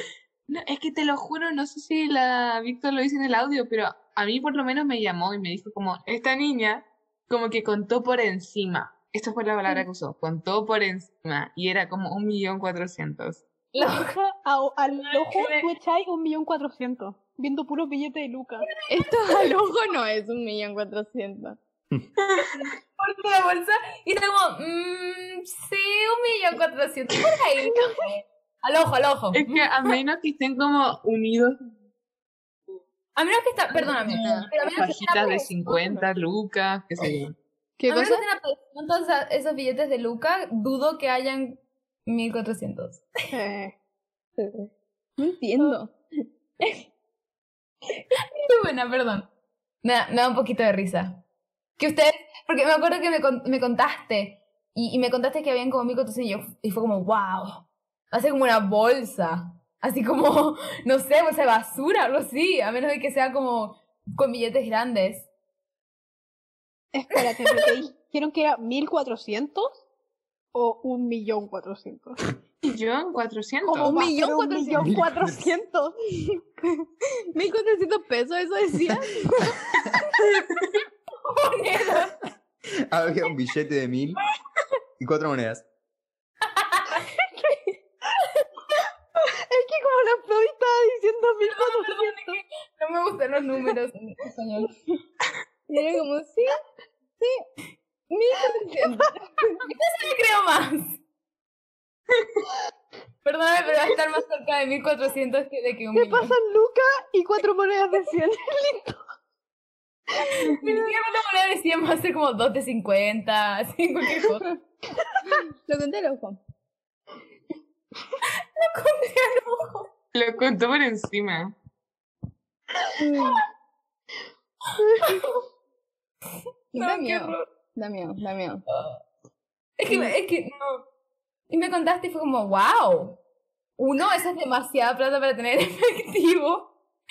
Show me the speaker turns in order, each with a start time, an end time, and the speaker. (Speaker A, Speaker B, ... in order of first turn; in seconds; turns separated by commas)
Speaker A: 0.5-13.4, Speaker B: 13.7-18.7, Speaker C: 13.8-14.1, Speaker C: 15.0-15.7, Speaker C: 18.6-19.5, Speaker D: 18.9-21.6, Speaker C: 23.0-29.7, Speaker A: 29.3-31.6, Speaker C: 33.2-35.9, Speaker D: 33.7-34.5, Speaker A: 34.6-37.4, Speaker D: 37.8-38.2, Speaker C: 37.9-43.1, Speaker B: 43.3-43.7, Speaker D: 45.2-45.9, Speaker C: 48.3-49.3, Speaker C: 49.8-51.2, Speaker C: 51.8-65.3, Speaker B: 66.9-69.8, Speaker B: 70.5-72.2, Speaker A: 72.6-73.9, Speaker B: 73.8-75.9, Speaker D: 73.8-75.5, Speaker E: 74.8-75.4, Speaker D: 76.3-79.6, Speaker A: 80.4-80.7, Speaker C: 81.3-82.2, Speaker E: 82.9-84.2, Speaker E: 85.0-85.7, Speaker C: 86.6-87.1, Speaker B: 89.5-92.3, Speaker C: 91.4-94.7, Speaker D: 95.7-96.5, Speaker D: 98.1-99.6, Speaker C: 99.6-101.0, Speaker C: 103.2-106.4, Speaker B: 105.9-109.0, Speaker C: 110.2-114.5, Speaker D: 115.7-116.4, Speaker C: 118.6-119.9, Speaker A: 120.1-121.5, Speaker D: 123.0-123.4, Speaker C: 125.0-125.3, Speaker D: 126.7-128.6, Speaker C: 126.8-127.4, Speaker C: 128.7-129.0, Speaker C: 129.8-130.8, Speaker C: 131.5-133.2, Speaker C: 133.8-136.7